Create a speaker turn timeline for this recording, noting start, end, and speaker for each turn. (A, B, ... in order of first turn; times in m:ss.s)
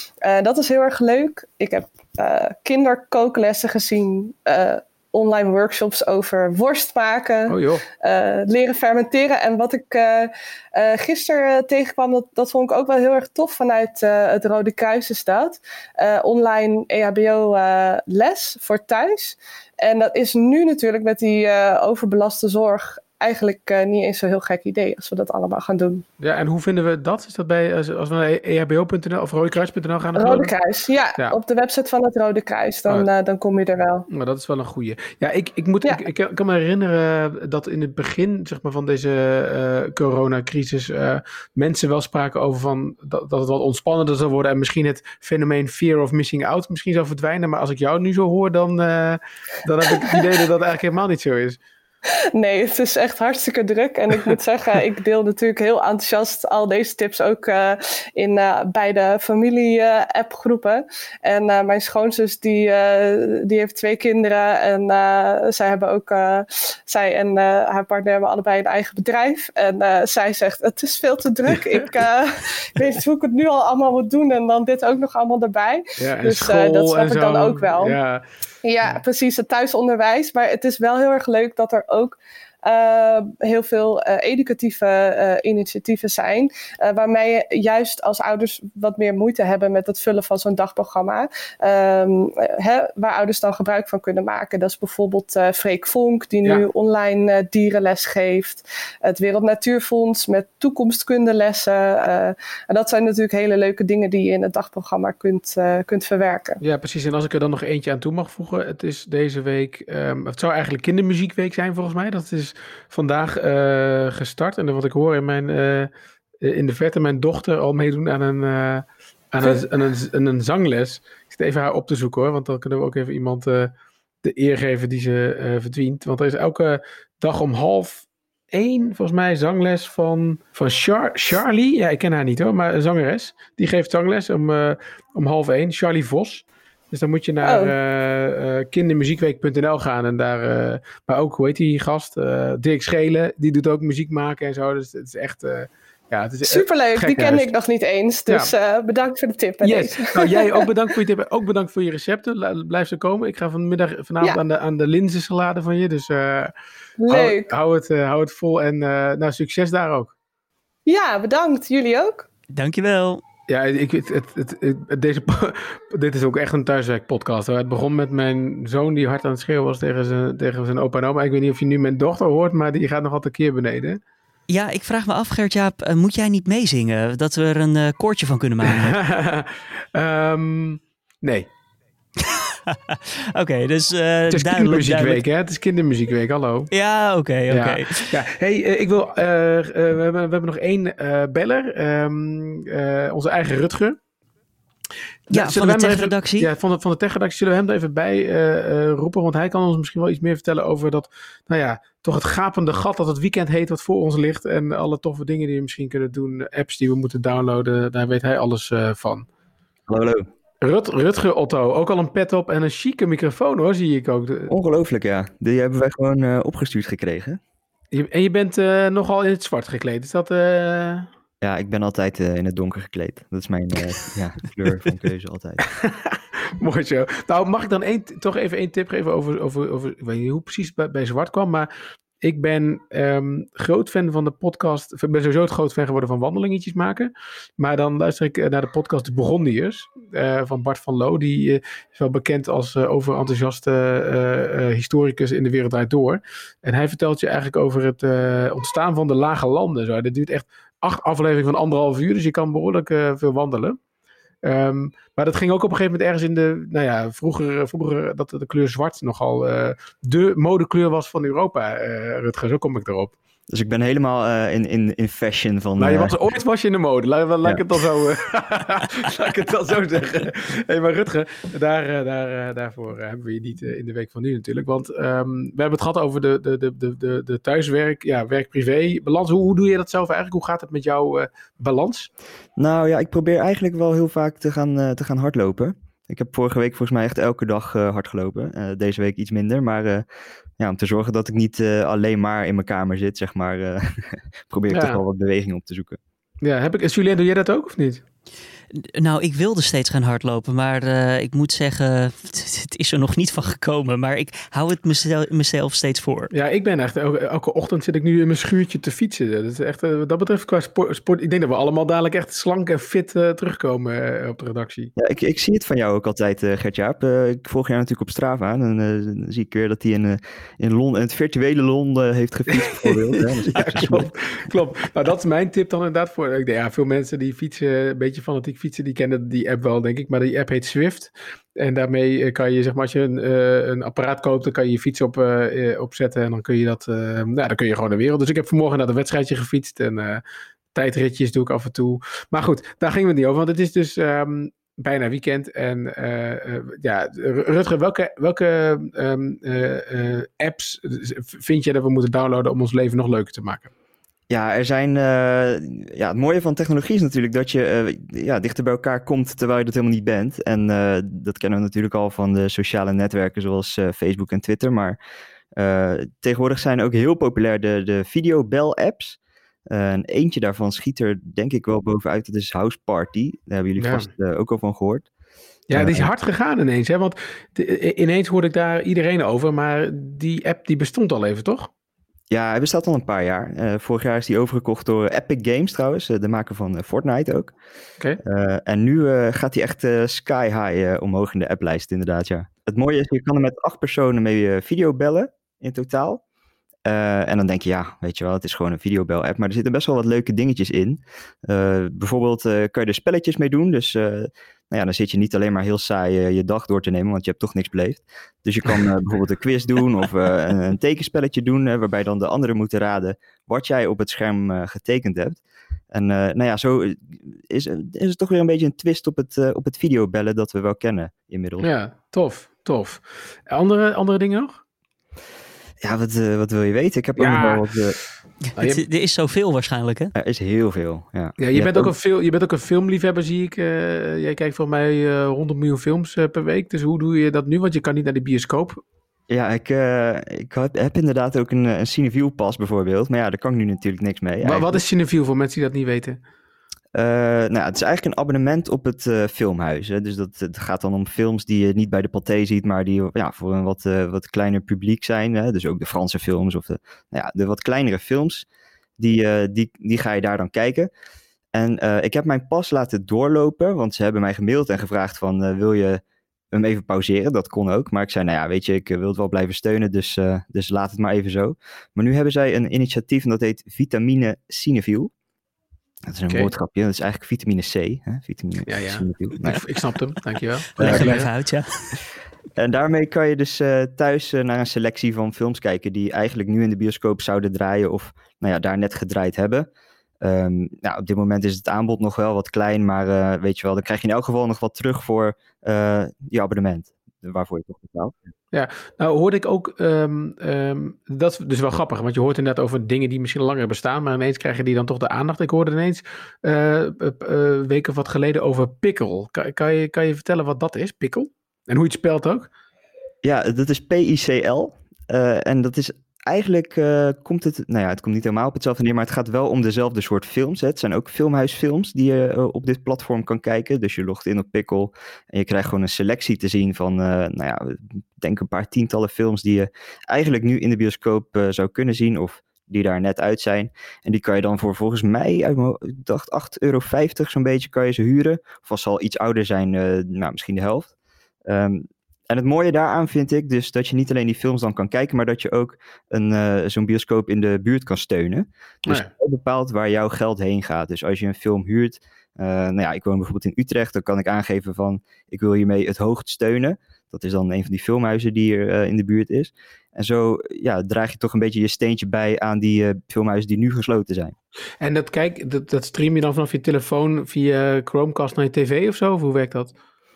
0:00.2-0:26.0 A
0:07.5-0:07.8 B
0:26.2-0:30.5 B
0:30.2-0:34.1 A
0:34.1-0:51.6 B
0:52.4-1:18.0 A
1:11.5-1:11.8 B
1:16.0-1:18.2 B
1:18.6-1:46.6 A
1:46.6-1:55.9 B
1:56.4-2:27.5 B
2:17.4-2:17.7 A
2:26.4-2:30.7 A
2:29.6-2:36.5 B
2:37.0-2:37.5 A
2:37.1-2:40.1 B
2:40.9-2:42.2 A
2:42.5-2:43.2 C
2:43.5-2:54.0 B
2:54.5-2:59.0 C
2:58.6-3:01.5 B
3:02.2-3:05.2 C
3:04.3-3:06.7 B
3:06.7-3:08.2 C
3:07.5-3:14.0 B
3:15.3-3:29.3 B
3:15.3-3:16.5 C
3:29.9-3:30.3 D
3:30.6-3:34.5 B
3:34.5-3:37.4 D
3:37.9-3:41.1 B
3:41.4-3:45.6 D
3:45.7-3:51.7 B
3:52.2-4:13.8 B
4:14.4-4:23.1 B
4:23.5-4:26.2 D
4:25.8-4:42.1 B
4:42.6-4:50.1 D
4:50.6-4:56.0 D
4:54.7-4:55.0 B
4:56.4-4:58.0 B
4:58.7-5:06.3 C
5:06.3-5:14.9 B
5:15.0-5:24.1 D
5:22.6-5:40.2 B
5:40.7-5:53.7 B
5:54.3-6:05.0 D
6:05.6-6:15.1 D
6:13.8-6:14.1 B
6:15.7-6:21.7 B
6:15.7-6:16.1 D
6:22.3-6:27.5 D
6:28.2-6:36.2 D
6:36.9-6:55.4 D
6:55.9-7:01.7 D
7:01.6-7:04.6 B
7:05.8-7:08.0 D
7:07.2-7:07.7 B
7:08.6-7:08.8 B
7:08.6-7:10.1 C
7:10.1-7:11.9 D
7:11.4-7:18.8 B
7:19.3-7:24.8 D
7:24.4-7:26.2 B
7:26.9-7:38.4 D
7:39.0-7:40.9 D
7:41.5-7:46.0 D
7:46.5-7:55.1 D
7:56.1-7:59.7 D
7:58.7-8:01.3 B
8:00.8-8:01.9 C
8:00.8-8:01.2 D
8:02.6-8:09.7 D
8:10.2-8:18.2 D
8:18.5-8:32.5 B
8:33.2-9:00.9 D
9:01.5-9:24.4 D
9:24.8-9:29.7 B